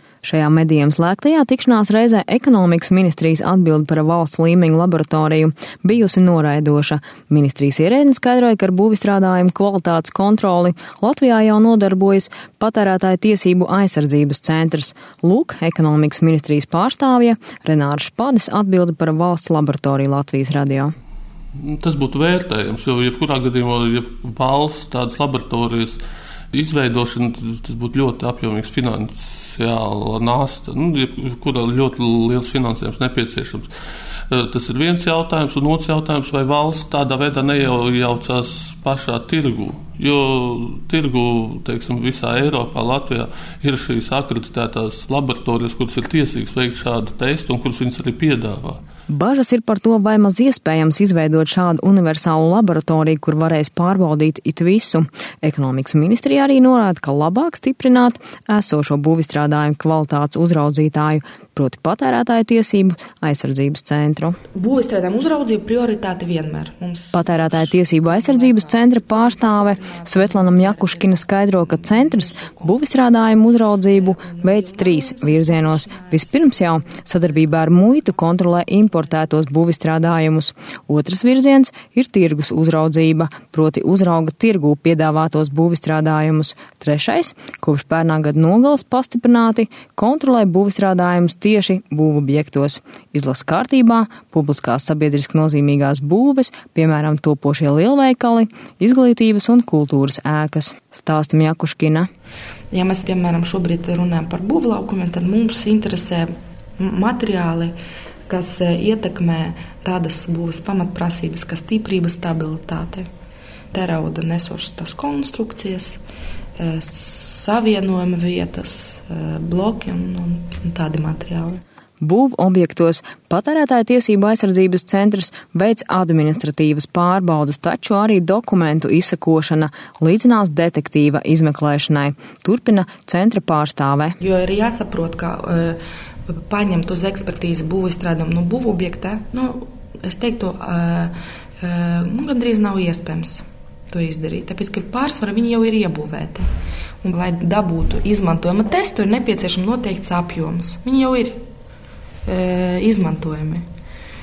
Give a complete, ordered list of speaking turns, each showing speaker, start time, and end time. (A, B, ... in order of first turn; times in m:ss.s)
0:00.2-0:20.9 A
0:21.6-0:26.0 B
0:26.5-0:33.7 B
0:34.3-0:48.8 B
0:49.1-1:04.4 A
1:04.5-1:13.2 C
1:07.1-1:42.1 A
1:14.0-1:16.6 C
1:42.7-1:47.7 C
1:48.3-1:53.1 C
1:53.7-1:56.0 C
1:56.6-2:01.6 C
2:02.0-2:14.2 A
2:14.2-2:15.8 C
2:16.3-2:26.4 C
2:27.0-2:31.4 C
2:32.3-2:33.6 C